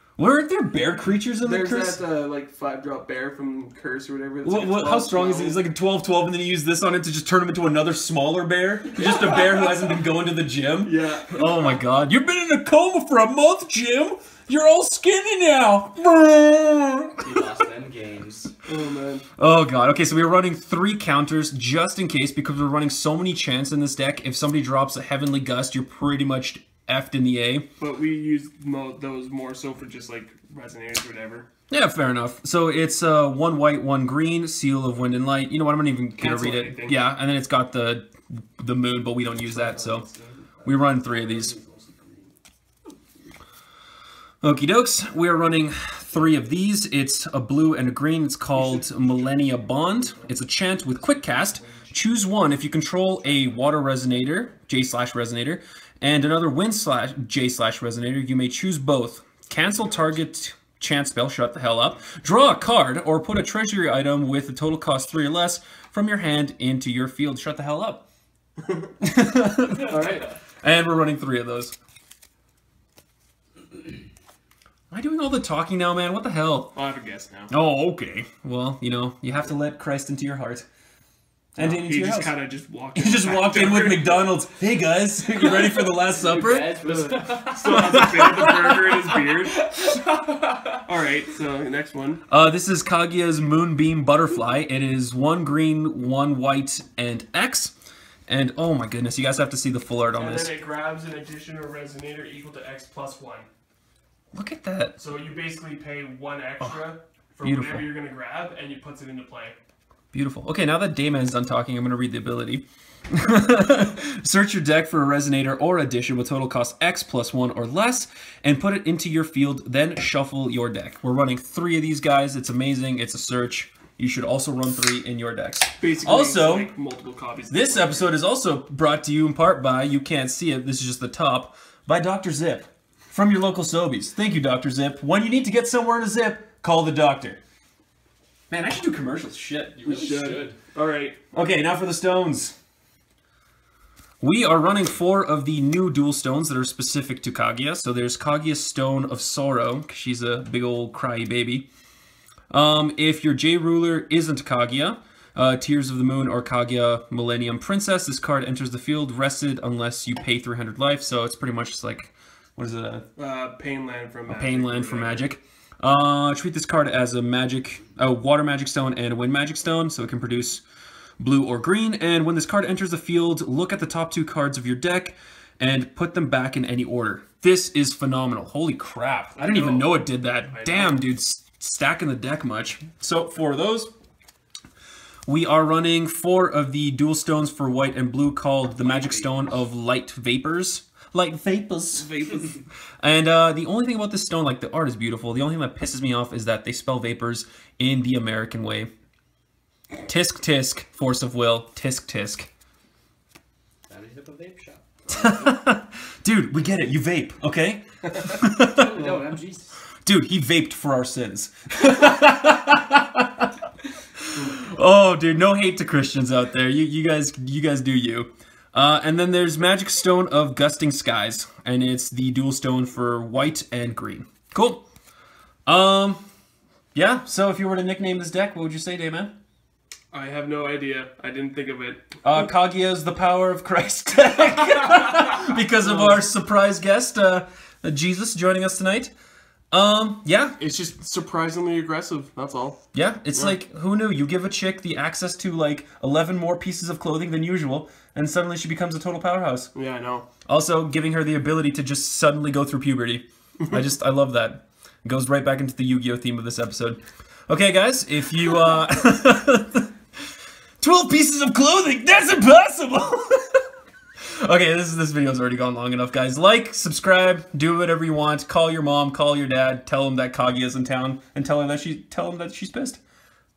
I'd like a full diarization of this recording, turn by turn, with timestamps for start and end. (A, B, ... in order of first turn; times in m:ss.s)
0:00.2-0:02.0 A
0:01.4-0:05.6 B
0:04.4-0:17.3 A
0:09.2-0:09.4 B
0:10.8-0:11.8 B
0:17.2-0:18.5 C
0:18.6-0:19.3 B
0:19.4-0:27.7 A
0:27.8-0:31.5 B
0:31.7-0:40.1 A
0:36.2-0:37.0 B
0:39.5-0:42.2 B
0:40.6-0:41.6 A
0:44.4-1:08.0 A
0:48.5-0:50.8 B
1:08.6-1:08.9 B
1:09.0-1:11.8 A
1:09.7-1:10.4 B
1:14.9-1:16.8 A
1:16.7-1:17.5 B
1:17.5-1:20.7 A
1:21.6-1:22.4 A
1:21.6-1:24.4 B
1:23.0-1:26.8 A
1:25.4-1:25.8 B
1:26.1-1:28.1 C
1:26.5-1:32.2 B
1:27.6-1:28.9 A
1:32.3-1:37.7 A
1:38.3-1:40.6 A
1:40.2-1:43.5 B
1:44.3-1:45.0 A
1:45.0-1:49.6 B
1:46.6-1:47.9 A
1:50.1-2:06.7 A
2:05.8-2:08.2 B
2:07.5-2:17.4 A
2:18.5-2:20.5 A
2:19.8-2:21.2 B
2:21.3-2:22.6 A
2:24.2-2:31.7 A
2:32.5-2:43.1 A
2:43.2-2:45.3 B
2:44.3-2:50.6 A
2:51.2-3:03.9 A
2:59.4-3:01.1 B
3:05.3-3:18.9 A
3:08.8-3:09.6 B
3:12.0-3:12.6 B
3:20.0-3:22.5 A
3:23.9-3:25.1 C
3:25.1-3:29.0 A
3:28.7-3:29.8 C
3:30.0-3:33.5 A
3:34.3-3:44.8 A
3:45.7-3:46.2 A
3:47.0-3:49.3 A
3:50.1-3:52.2 B
3:52.2-3:59.1 A
3:55.8-3:56.2 B
3:59.7-4:00.6 A
4:00.6-4:03.6 B
4:02.9-4:09.7 A
4:09.7-4:10.3 B
4:10.5-4:19.9 A
4:20.8-4:23.6 A
4:24.2-4:33.0 A